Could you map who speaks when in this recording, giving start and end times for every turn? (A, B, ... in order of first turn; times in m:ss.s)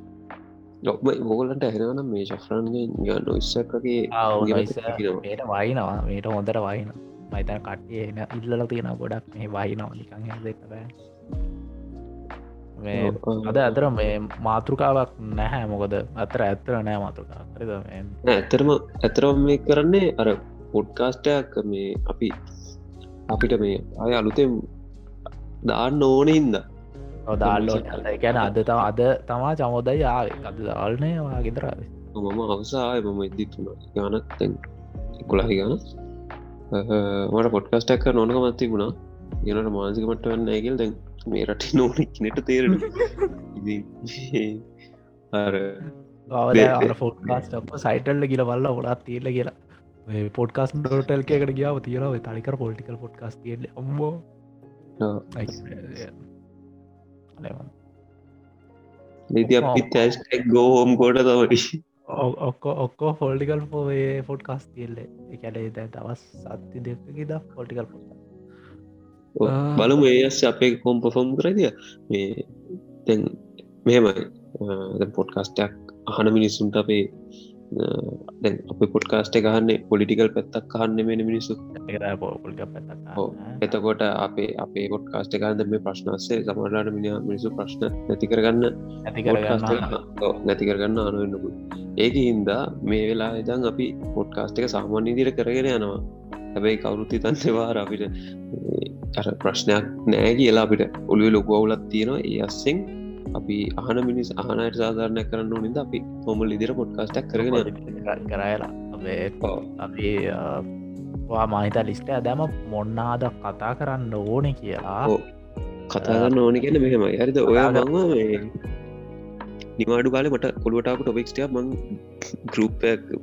0:00.9-0:05.2 A
0:04.2-0:10.8 B
0:12.8-0:18.1 B
0:13.0-0:13.8 A
0:18.3-0:22.3 A
0:23.3-0:24.5 A
0:25.7-0:26.6 A
0:27.3-0:31.8 B
0:27.4-0:28.8 A
0:32.2-0:34.6 A
0:35.2-0:35.7 A
0:36.7-0:38.9 A
0:39.4-0:42.9 A
0:42.8-0:43.1 B
0:43.5-0:44.6 A
0:45.3-0:45.6 A
0:46.3-0:49.5 B
0:46.5-0:47.4 A
0:50.1-0:54.2 B
0:55.0-0:55.5 A
0:55.3-0:56.2 B
0:57.4-0:57.7 B
0:59.3-1:01.6 A
0:59.4-0:59.9 B
1:02.1-1:08.2 B
1:09.4-1:12.4 A
1:09.5-1:09.9 B
1:13.9-1:17.0 A
1:17.7-1:21.6 A
1:21.8-1:23.6 B
1:23.2-1:28.7 A
1:29.0-1:29.9 B
1:29.3-1:35.9 A
1:36.6-1:42.8 A
1:43.4-1:47.7 A
1:47.4-1:50.6 B
1:51.3-1:55.1 B
1:55.9-1:58.5 A
1:56.0-1:56.3 B
1:57.5-1:57.9 B
1:59.8-2:01.7 A
2:02.5-2:03.0 A